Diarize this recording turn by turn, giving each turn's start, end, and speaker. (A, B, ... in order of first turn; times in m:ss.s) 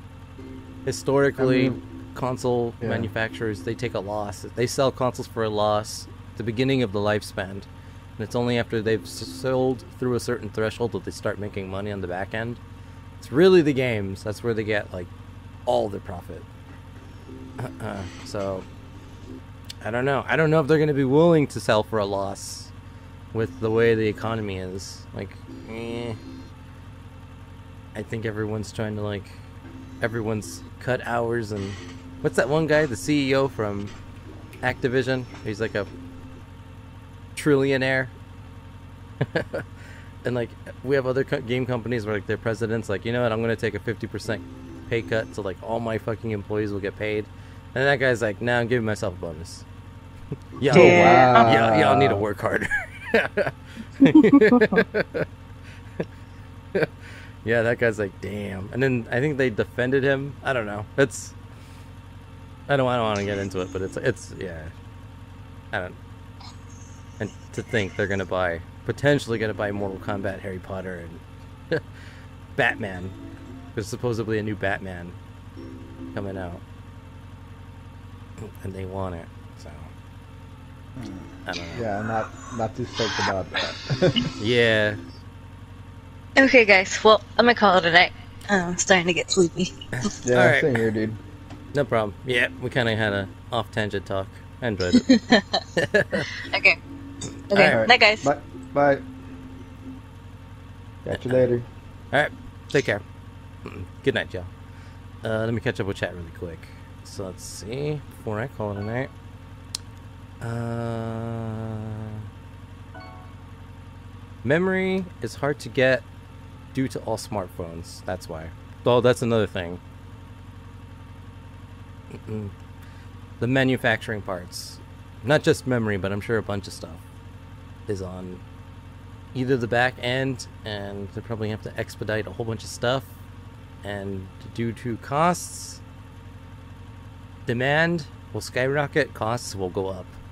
0:00.8-0:12.6 A
0:01.4-0:01.8 B
0:02.8-0:03.1 B
0:13.2-0:15.1 A
0:15.6-0:16.5 A
0:17.6-0:18.7 A
0:19.8-0:22.7 A
0:23.3-0:26.2 A
0:27.9-0:29.4 A
0:30.0-0:33.9 A
0:34.6-0:35.9 A
0:37.4-0:38.1 A
0:39.2-0:39.6 A
0:40.2-0:49.6 A
0:50.6-0:55.2 A
0:50.7-0:52.2 B
0:50.7-0:51.5 C
0:54.1-0:54.8 C
0:57.4-1:01.4 A
1:02.7-1:04.7 A
1:05.7-1:06.0 A
1:07.2-1:11.8 A
1:12.6-1:13.2 A
1:13.7-1:15.2 A
1:16.1-1:16.6 A
1:18.4-1:19.9 A
1:21.0-1:24.3 B
1:21.4-1:21.9 A
1:24.4-1:25.0 A
1:26.4-1:29.7 C
1:30.0-1:30.8 A
1:30.2-1:31.2 B
1:31.7-1:35.1 A
1:35.0-1:35.6 C
1:35.8-1:36.3 A
1:36.4-1:36.8 C
1:37.5-1:38.3 C
1:37.5-1:37.8 A
1:37.7-1:39.0 B
1:41.0-1:41.6 B
1:41.1-1:41.5 A
1:42.1-1:43.0 A
1:43.6-1:44.5 A
1:45.2-1:49.1 A
1:50.4-1:52.2 A
1:54.4-1:56.1 A
1:56.7-1:59.8 A
2:02.1-2:02.5 A
2:03.4-2:07.0 A
2:07.9-2:08.4 A
2:09.3-2:13.1 A
2:13.8-2:15.8 A
2:17.4-2:20.2 A